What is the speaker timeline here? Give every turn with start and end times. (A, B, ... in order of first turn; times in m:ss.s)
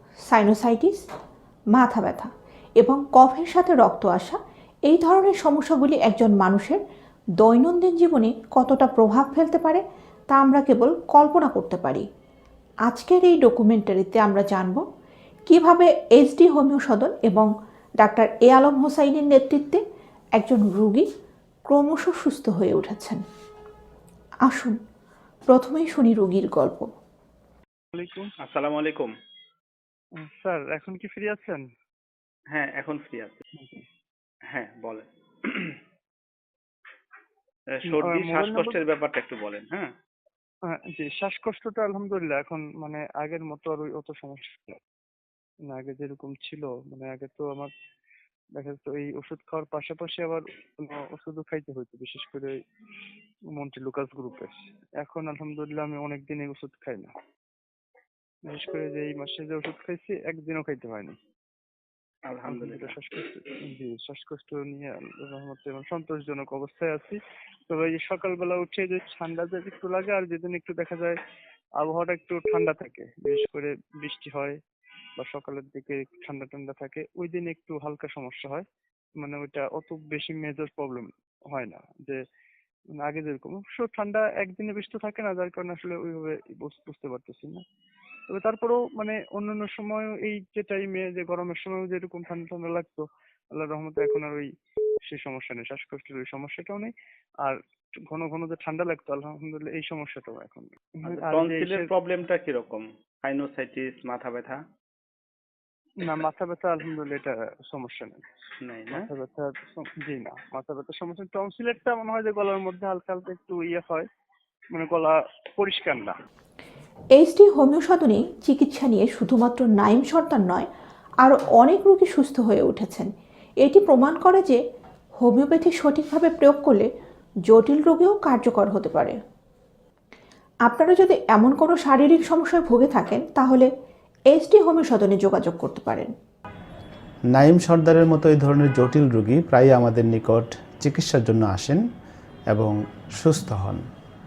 0:00.3-0:01.0 A
0:01.7-0:06.8 A
0:07.4-0:12.0 A
0:12.8-0:14.8 A
0:15.5-0:17.5 A
0:18.0-0:19.8 A
0:20.4-0:21.0 A
0:21.7-0:23.2 A
0:24.4-0:24.8 A
0:25.5-0:26.8 A
0:27.9-0:28.3 B
0:28.4-0:29.1 C
0:30.2-0:31.6 B
0:32.5-0:33.4 C
0:33.6-0:33.8 B
0:34.5-0:35.8 C
0:37.7-0:39.9 C
0:37.9-0:38.8 B
0:40.7-0:44.8 B
0:45.7-0:47.7 B
0:48.6-0:52.6 B
0:53.5-0:57.1 B
0:58.5-1:01.2 B
1:02.2-1:03.0 C
1:02.5-1:11.2 B
1:11.8-1:14.6 B
1:15.2-1:18.6 B
1:19.2-1:22.2 B
1:23.0-1:27.6 B
1:28.3-1:34.5 B
1:35.1-1:36.9 B
1:37.4-1:41.9 B
1:41.0-1:44.6 C
1:46.0-1:48.2 B
1:48.6-1:49.1 C
1:48.9-1:54.0 B
1:54.7-1:56.1 B
1:57.2-2:00.7 A
2:01.2-2:03.1 A
2:03.6-2:04.6 A
2:05.2-2:06.9 A
2:07.5-2:09.2 A
2:10.7-2:13.7 A
2:14.3-2:16.1 A
2:17.3-2:21.8 D
2:22.5-2:23.8 D